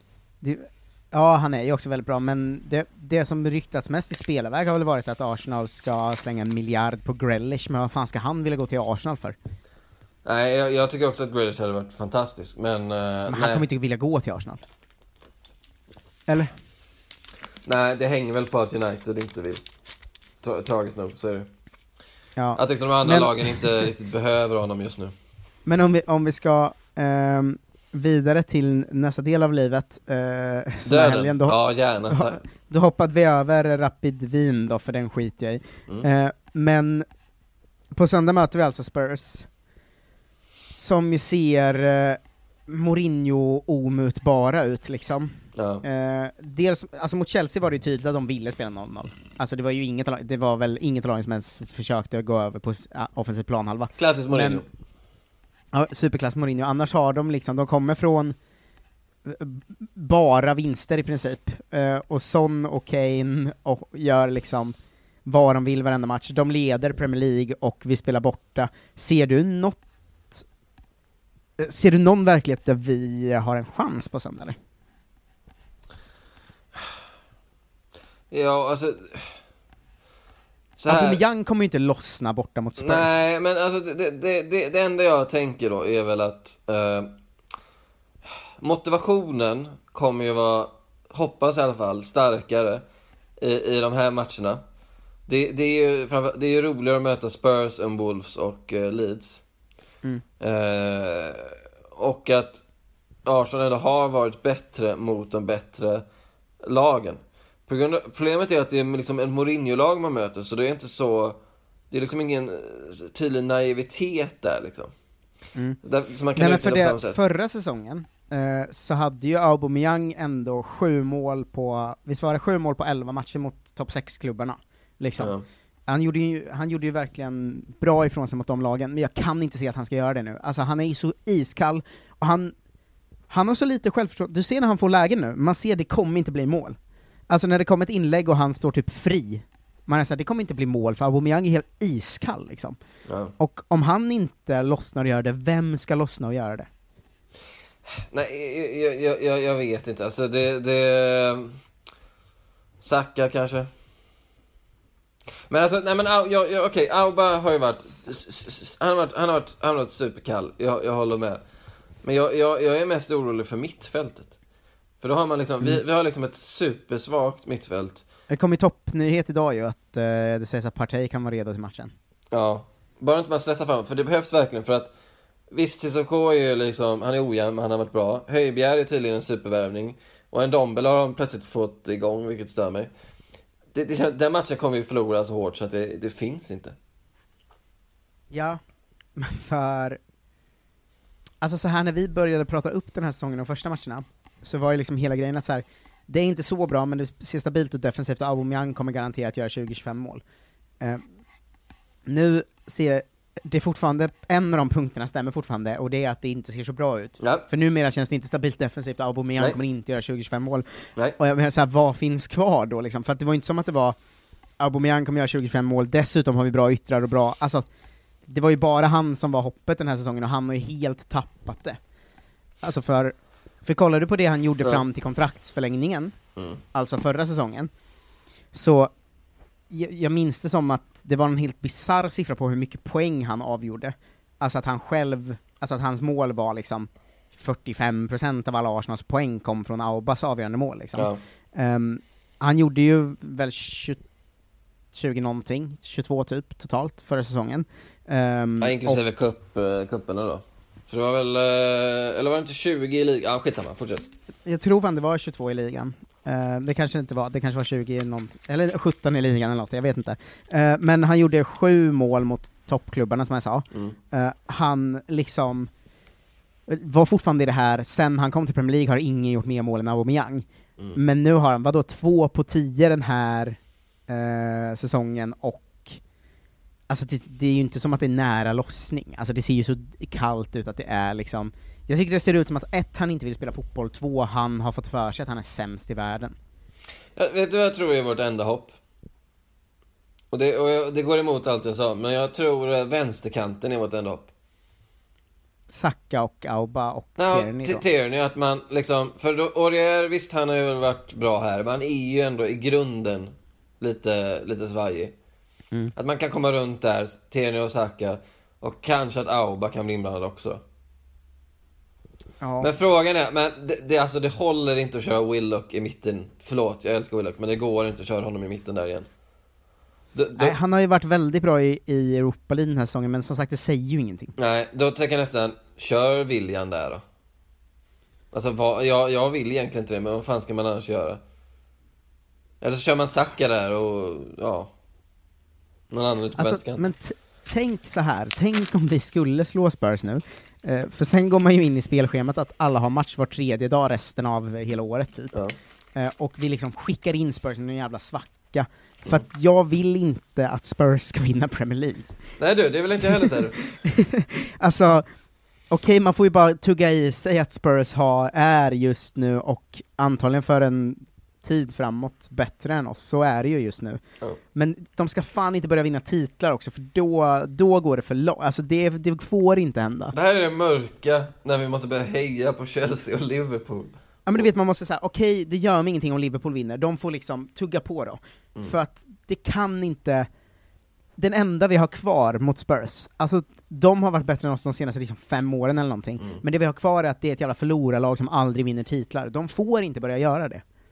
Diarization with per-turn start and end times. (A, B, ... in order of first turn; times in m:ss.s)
0:00.4-0:09.4 A
0:10.2-0:13.6 B
0:13.3-0:14.6 A
0:17.6-0:19.6 B
0:20.4-0:21.5 B
0:22.4-0:23.6 A
0:22.6-0:25.1 B
0:25.6-0:37.0 A
0:30.8-0:32.4 B
0:37.9-0:39.5 A
0:40.8-0:54.6 A
0:45.6-0:45.8 B
0:54.0-0:54.6 B
0:55.7-0:58.4 A
0:59.2-1:09.8 A
1:11.6-1:14.6 A
1:18.3-1:19.3 B
1:20.8-1:21.2 B
1:20.9-1:23.2 A
1:22.8-1:27.1 B
1:28.6-1:32.8 B
1:33.4-1:34.6 B
1:35.3-1:39.4 B
1:40.4-1:42.6 B
1:43.2-1:46.0 B
1:46.6-1:51.4 B
1:51.9-1:54.9 B
1:55.8-1:57.2 B
1:56.3-2:05.3 A
2:05.2-2:05.4 B
2:05.9-2:12.5 A
2:13.3-2:16.8 A
2:17.3-2:22.8 A
2:23.4-2:26.7 A
2:28.1-2:31.6 B
2:32.8-2:33.7 B
2:35.5-2:41.4 B
2:42.0-2:44.3 B
2:45.0-2:48.0 B
2:48.3-2:51.9 A
2:52.3-2:54.9 B
2:55.5-3:02.9 B
3:03.7-3:06.7 B
3:08.3-3:08.6 A
3:09.2-3:10.0 A
3:11.4-3:20.2 A
3:22.0-3:30.6 A
3:31.2-3:34.0 A
3:34.6-3:37.6 A
3:38.3-3:41.8 A
3:42.6-3:46.2 A
3:46.7-3:47.7 A
3:48.5-3:48.9 A
3:49.7-4:04.0 A
4:04.9-4:09.0 A
4:08.6-4:14.0 B
4:14.4-4:25.7 A
4:26.7-4:36.0 A
4:36.9-4:46.3 A
4:47.2-4:48.7 B
4:50.3-4:54.3 B
4:55.7-4:57.8 A
4:57.2-5:05.1 B
5:06.0-5:10.6 B
5:12.4-5:12.7 A
5:12.6-5:19.1 B
5:20.1-5:20.6 B
5:20.4-5:24.3 A
5:24.4-5:27.0 B
5:28.3-5:31.2 B
5:32.6-5:34.7 B
5:35.9-5:36.9 B
5:36.4-5:45.3 A
5:46.0-5:52.1 A
5:52.4-5:53.6 B
5:53.8-5:55.0 A
5:55.7-6:04.0 A
6:04.5-6:10.1 A
6:10.1-6:13.9 B
6:14.3-6:20.3 A
6:21.2-6:30.6 A